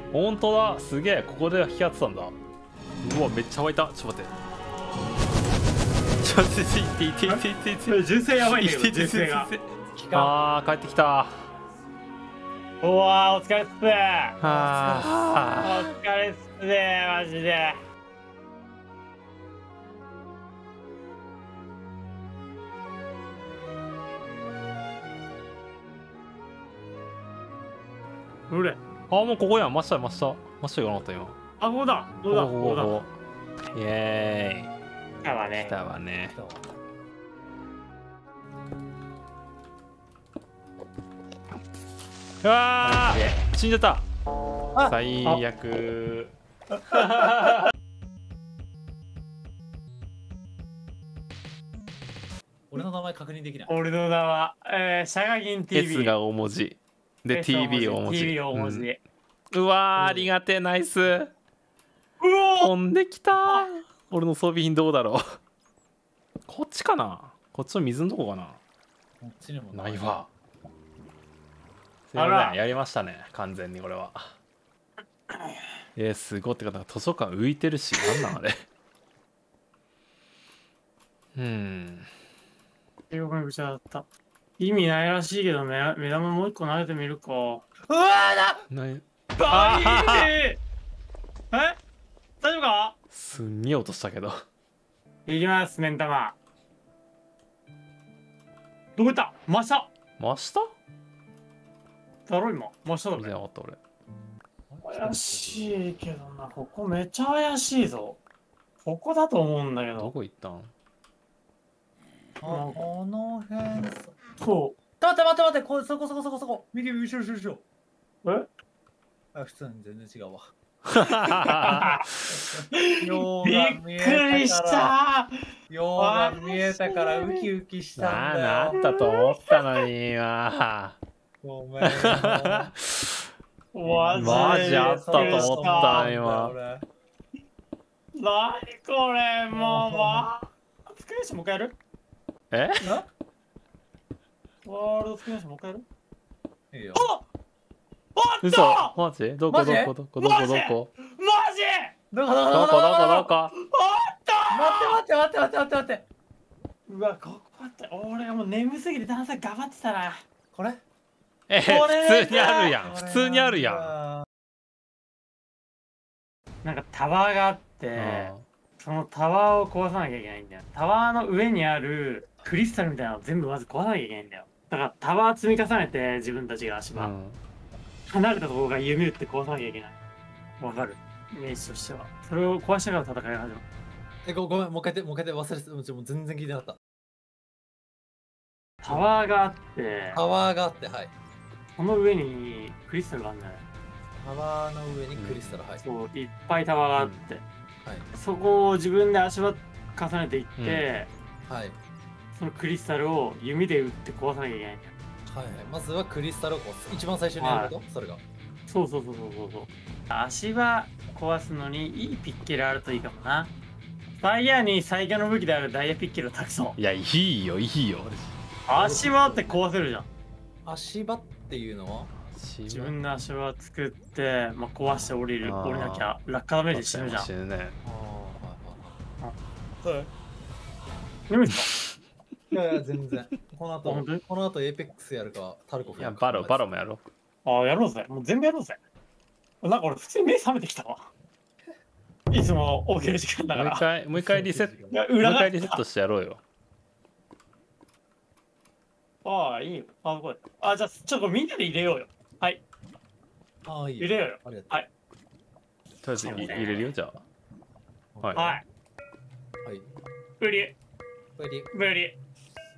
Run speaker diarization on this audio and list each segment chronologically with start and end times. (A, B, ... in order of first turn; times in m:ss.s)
0:00.1-0:02.3 A
0:03.0-0:04.3 A
0:06.2-0:11.3 A
0:07.3-0:09.5 B
0:09.9-0:10.4 C
0:12.8-0:14.4 B
0:14.4-0:15.9 A
0:14.4-0:15.2 C
0:15.6-0:17.8 B
0:28.5-0:28.8 B
0:29.1-0:31.3 A
0:31.6-0:33.0 B
0:32.3-0:33.1 A
0:33.7-0:34.7 A
0:35.2-0:35.8 B
0:35.6-0:36.4 A
0:36.3-0:36.8 C
0:42.4-0:44.0 A
0:42.8-0:43.4 B
0:44.8-0:46.3 A
0:46.9-0:47.6 A
0:52.7-0:53.7 C
0:53.7-0:56.2 B
0:55.7-0:58.9 A
0:57.3-0:59.0 B
0:59.5-1:01.3 A
1:00.0-1:00.3 C
1:02.2-1:02.7 B
1:02.6-1:05.2 A
1:06.5-1:08.6 A
1:09.2-1:10.2 C
1:09.7-1:10.3 A
1:12.1-1:14.3 A
1:12.2-1:12.6 B
1:15.3-1:15.7 B
1:16.0-1:18.6 A
1:21.3-1:22.1 A
1:23.1-1:24.1 B
1:24.6-1:27.6 B
1:27.8-1:28.7 C
1:28.7-1:30.3 A
1:29.4-1:30.6 B
1:31.5-1:31.8 B
1:32.4-1:33.0 B
1:33.1-1:34.4 A
1:35.3-1:36.4 B
1:39.0-1:39.9 B
1:40.2-1:40.7 A
1:42.3-1:43.4 B
1:43.2-1:43.8 A
1:44.7-1:45.8 C
1:44.9-1:48.2 B
1:48.8-1:50.1 B
1:50.0-1:50.7 A
1:52.4-1:54.1 C
1:52.4-1:52.8 B
1:54.4-1:54.8 B
1:55.0-1:57.6 C
1:58.2-1:58.5 B
1:59.3-2:00.5 C
2:00.9-2:01.9 A
2:01.2-2:04.9 C
2:01.4-2:02.1 B
2:02.7-2:07.5 B
2:05.7-2:08.8 C
2:08.0-2:11.0 A
2:08.8-2:09.8 B
2:11.4-2:12.7 C
2:11.9-2:13.1 A
2:13.7-2:16.1 B
2:13.8-2:16.8 C
2:14.2-2:16.6 A
2:18.1-2:21.8 B
2:19.5-2:20.3 C
2:22.5-2:22.9 A
2:24.6-2:25.8 B
2:26.7-2:27.1 C
2:26.9-2:27.2 B
2:28.2-2:28.9 B
2:28.4-2:30.9 A
2:29.5-2:29.9 C
2:30.2-2:31.9 B
2:32.1-2:33.3 C
2:32.5-2:33.5 A
2:33.5-2:35.0 B
2:34.5-2:36.0 C
2:36.9-2:40.2 B
2:40.5-2:40.8 C
2:41.5-2:43.9 A
2:41.6-2:42.8 B
2:42.5-2:44.2 C
2:46.6-2:57.1 B
2:48.0-2:48.4 A
2:56.9-2:57.4 A
2:58.1-2:59.9 B
3:00.6-3:03.6 B
3:04.2-3:06.8 C
3:08.8-3:10.2 B
3:10.1-3:11.1 C
3:11.8-3:13.6 B
3:14.2-3:15.8 C
3:15.2-3:15.6 A
3:15.8-3:17.4 B
3:18.1-3:21.1 B
3:20.6-3:20.9 A
3:21.5-3:21.8 C
3:22.3-3:24.9 B
3:25.3-3:28.2 C
3:27.4-3:27.7 B
3:28.7-3:33.5 B
3:34.2-3:36.8 B
3:36.8-3:38.3 A
3:38.7-3:40.1 B
3:38.7-3:39.6 C
3:40.6-3:42.1 C
3:42.3-3:42.9 A
3:42.7-3:47.3 B
3:45.4-3:46.1 A
3:46.7-3:47.8 A
3:47.8-3:48.9 C
3:49.2-3:50.1 B
3:51.3-3:51.7 B
3:52.5-3:56.6 C
3:53.8-3:54.2 B
3:56.0-3:57.0 A
3:57.4-3:58.8 B
3:59.6-4:01.1 B
4:02.3-4:03.9 B
4:03.5-4:06.4 A
4:04.2-4:04.8 C
4:04.9-4:05.8 B
4:09.2-4:12.6 B
4:13.6-4:14.8 C
4:14.0-4:14.9 B
4:16.0-4:17.2 A
4:16.2-4:16.9 B
4:18.2-4:18.6 C
4:18.3-4:18.6 B
4:20.4-4:20.8 B
4:21.4-4:21.7 C
4:21.7-4:22.2 B